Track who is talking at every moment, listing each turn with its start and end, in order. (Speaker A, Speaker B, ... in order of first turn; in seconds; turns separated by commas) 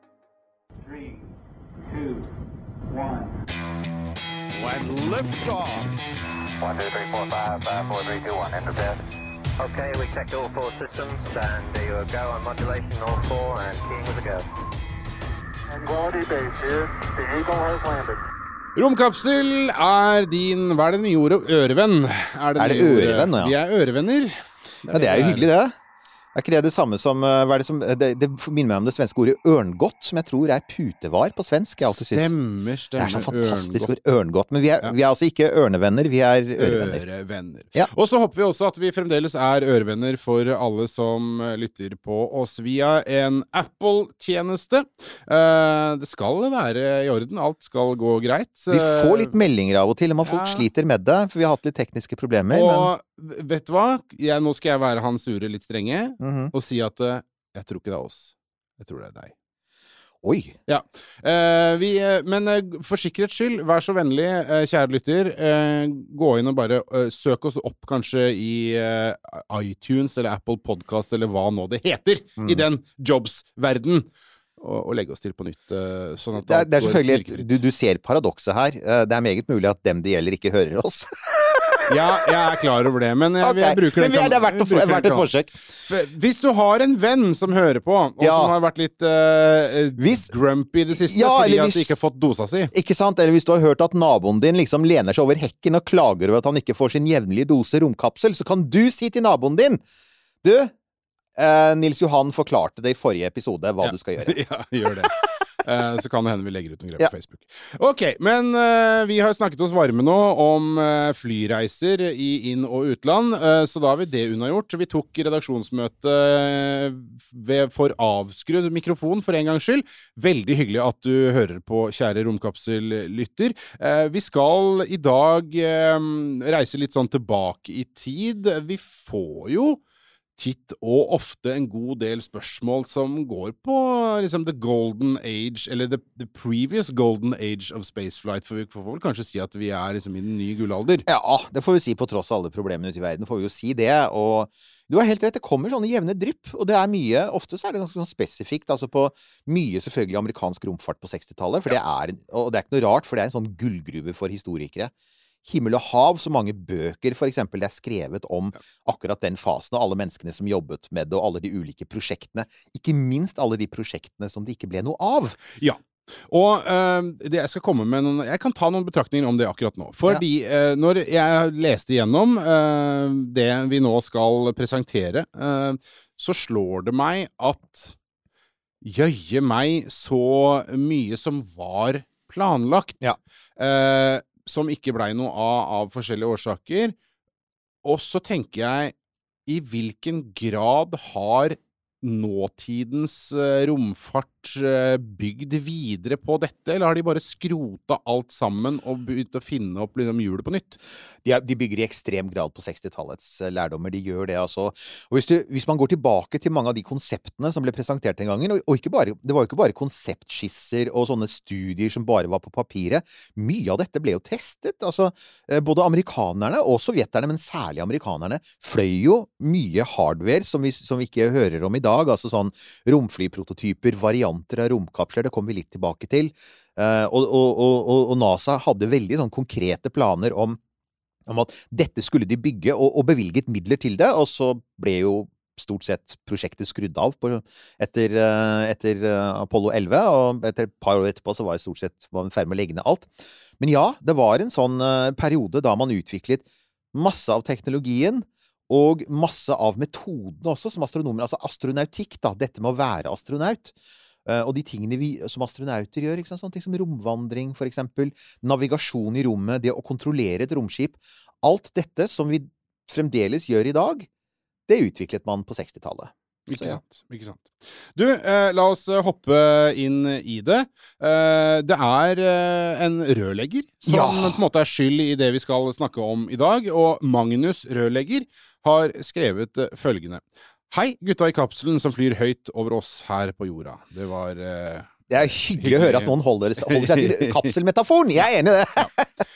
Speaker A: 4.6-5.9, Speaker A: 6.6-9.0, Speaker A: 9.6-14.5, Speaker B: 15.8-18.1, Speaker A: 16.0-17.9, Speaker C: 18.8-25.5, Speaker D: 22.6-23.5, Speaker D: 24.9-25.7, Speaker D: 26.4-32.3, Speaker C: 31.8-33.9, Speaker D: 33.0-37.0, Speaker C: 36.6-49.3, Speaker D: 48.7-52.9, Speaker C: 50.2-50.7, Speaker C: 52.5-59.3, Speaker D: 56.2-56.5, Speaker D: 60.2-60.6, Speaker C: 60.7-77.5, Speaker D: 72.4-72.7, Speaker D: 76.4-82.3, Speaker C: 81.9-85.3, Speaker D: 83.4-85.6, Speaker C: 85.8-92.7, Speaker D: 88.2-88.5, Speaker D: 90.0-90.3, Speaker D: 90.9-91.9, Speaker D: 92.7-99.8, Speaker D: 100.4-100.7, Speaker D: 101.4-104.4, Speaker C: 103.8-129.8, Speaker C: 130.4-141.0, Speaker D: 141.1-154.9, Speaker D: 155.4-165.4, Speaker C: 165.6-177.9, Speaker C: 178.8-183.0, Speaker C: 183.6-186.9, Speaker C: 187.8-188.9, Speaker C: 189.4-200.8, Speaker D: 201.2-230.6, Speaker D: 231.3-253.7, Speaker D: 254.2-264.1, Speaker D: 264.7-266.8, Speaker C: 266.5-286.1, Speaker D: 273.9-274.4, Speaker D: 285.1-289.1, Speaker C: 286.7-287.5